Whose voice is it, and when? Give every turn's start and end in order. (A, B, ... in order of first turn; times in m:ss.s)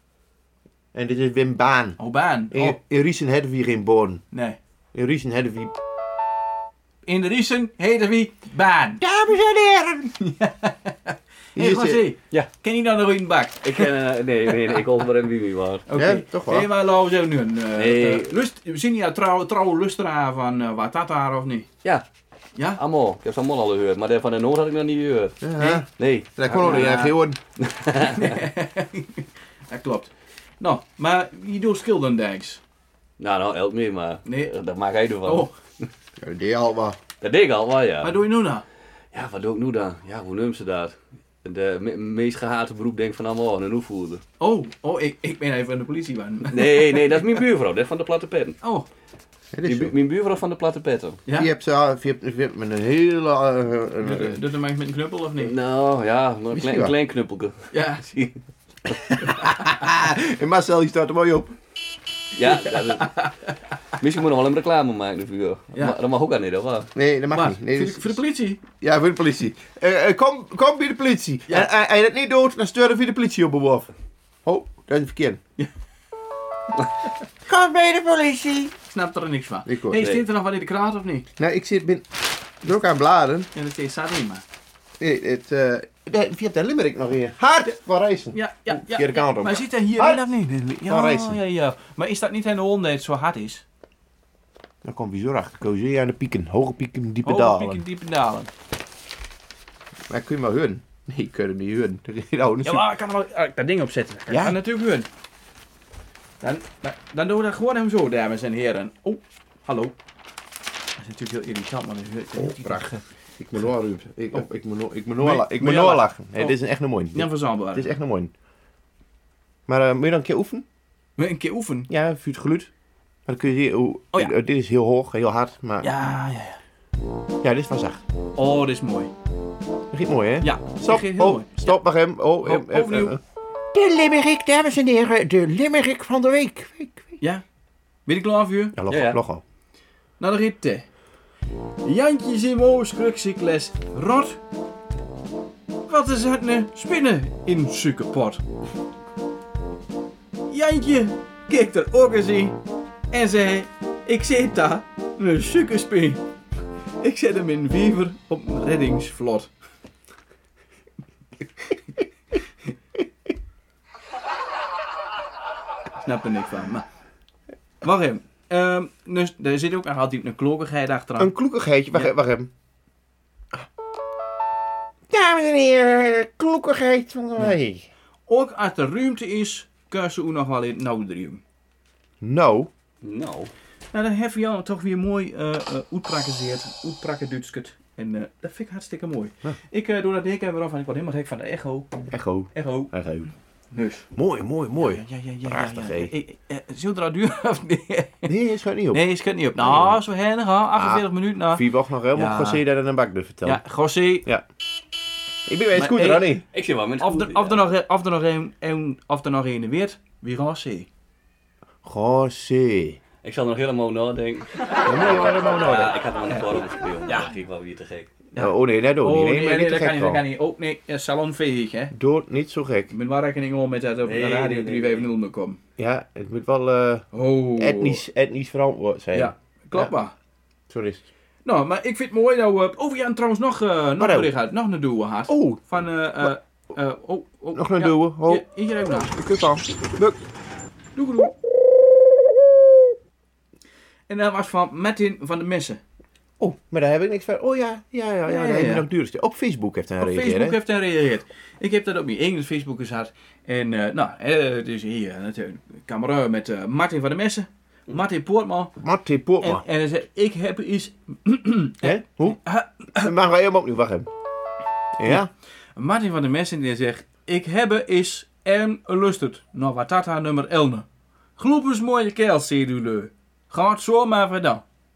0:00.9-0:02.0 A
0:02.0-0:02.8 B
0:02.5-0:04.2 A
0:04.3-0:04.6 B
0:04.9-0:05.7 A
0:07.0-0:09.0 B
0:09.0-0:10.1 A
0:10.2-0:13.9 B
0:11.6-0:12.1 A
0:13.6-0:15.8 C
0:15.9-0:21.7 B
0:15.9-0:16.7 A
0:17.8-0:18.3 C
0:22.8-0:27.0 C
0:25.4-0:27.4 A
0:26.5-0:27.2 B
0:27.6-0:28.4 C
0:28.0-0:32.6 B
0:33.2-0:35.9 C
0:34.2-0:34.5 B
0:35.2-0:35.5 B
0:36.2-0:37.0 A
0:37.2-0:38.2 C
0:38.0-0:38.6 B
0:39.1-0:44.2 C
0:44.4-0:47.3 B
0:46.5-0:48.6 C
0:49.5-0:49.9 A
0:49.6-0:51.2 C
0:51.3-0:54.4 A
0:54.0-0:55.5 B
0:55.4-0:59.1 C
0:56.5-0:56.9 A
0:57.7-0:58.0 B
0:59.2-0:59.5 B
0:59.3-1:01.6 A
1:02.4-1:03.2 C
1:03.0-1:03.3 B
1:04.0-1:06.9 C
1:06.9-1:13.9 A
1:07.3-1:08.6 B
1:14.4-1:15.4 A
1:17.4-1:18.7 A
1:18.9-1:21.3 B
1:19.6-1:20.2 A
1:21.4-1:22.0 A
1:22.6-1:23.5 A
1:23.5-1:24.4 B
1:25.0-1:30.3 A
1:28.3-1:33.6 B
1:30.8-1:31.4 A
1:34.8-1:37.8 A
1:37.2-1:38.5 B
1:40.1-1:42.9 A
1:42.6-1:45.1 B
1:44.3-1:44.6 A
1:46.4-1:49.9 B
1:51.0-1:53.0 B
1:52.3-1:58.3 A
1:55.2-1:56.6 B
1:57.1-1:57.9 B
1:59.7-2:00.6 A
2:01.2-2:01.9 B
2:01.9-2:02.7 A
2:03.2-2:05.9 A
2:05.8-2:06.6 B
2:07.4-2:08.0 A
2:08.4-2:09.1 B
2:09.9-2:13.2 A
2:10.4-2:11.8 B
2:12.4-2:13.2 B
2:13.7-2:17.2 A
2:18.0-2:18.8 B
2:18.7-2:19.4 A
2:18.9-2:19.2 C
2:20.2-2:20.9 B
2:21.8-2:24.4 B
2:25.9-2:28.4 B
2:30.5-2:32.6 B
2:33.1-2:36.2 B
2:37.0-2:39.5 B
2:46.0-2:46.8 B
2:47.8-2:51.3 B
2:51.2-2:52.5 A
2:55.1-2:57.9 A
2:58.3-3:01.4 B
3:02.2-3:02.7 A
3:03.0-3:03.5 C
3:03.9-3:11.9 B
3:12.1-3:13.3 A
3:12.5-3:12.9 B
3:13.7-3:14.0 B
3:14.1-3:16.1 A
3:14.8-3:18.3 B
3:18.2-3:19.0 A
3:18.9-3:22.6 B
3:19.6-3:20.0 A
3:20.7-3:23.6 A
3:23.4-3:24.3 B
3:25.4-3:26.4 A
3:25.7-3:26.4 B
3:26.5-3:27.6 C
3:27.0-3:30.9 B
3:31.8-3:33.0 A
3:33.2-3:38.1 C
3:34.9-3:36.0 A
3:38.3-3:41.9 B
3:38.4-3:40.2 A
3:41.9-3:42.9 A
3:42.9-3:45.6 B
3:44.0-3:45.1 C
3:45.8-3:49.9 A
3:47.1-3:48.0 B
3:49.1-3:50.1 B
3:50.7-3:51.0 A
3:51.4-3:59.1 B
3:54.0-3:54.3 A
3:55.3-3:55.6 A
3:57.5-3:58.4 A
3:59.0-4:00.2 A
4:01.0-4:01.3 B
4:04.1-4:05.8 B
4:06.4-4:10.6 A
4:08.2-4:08.8 B
4:10.0-4:18.7 B
4:18.8-4:19.6 A
4:19.4-4:23.1 B
4:21.8-4:22.4 A
4:23.0-4:24.1 A
4:25.0-4:25.3 A
4:25.8-4:30.8 B
4:31.4-4:34.6 B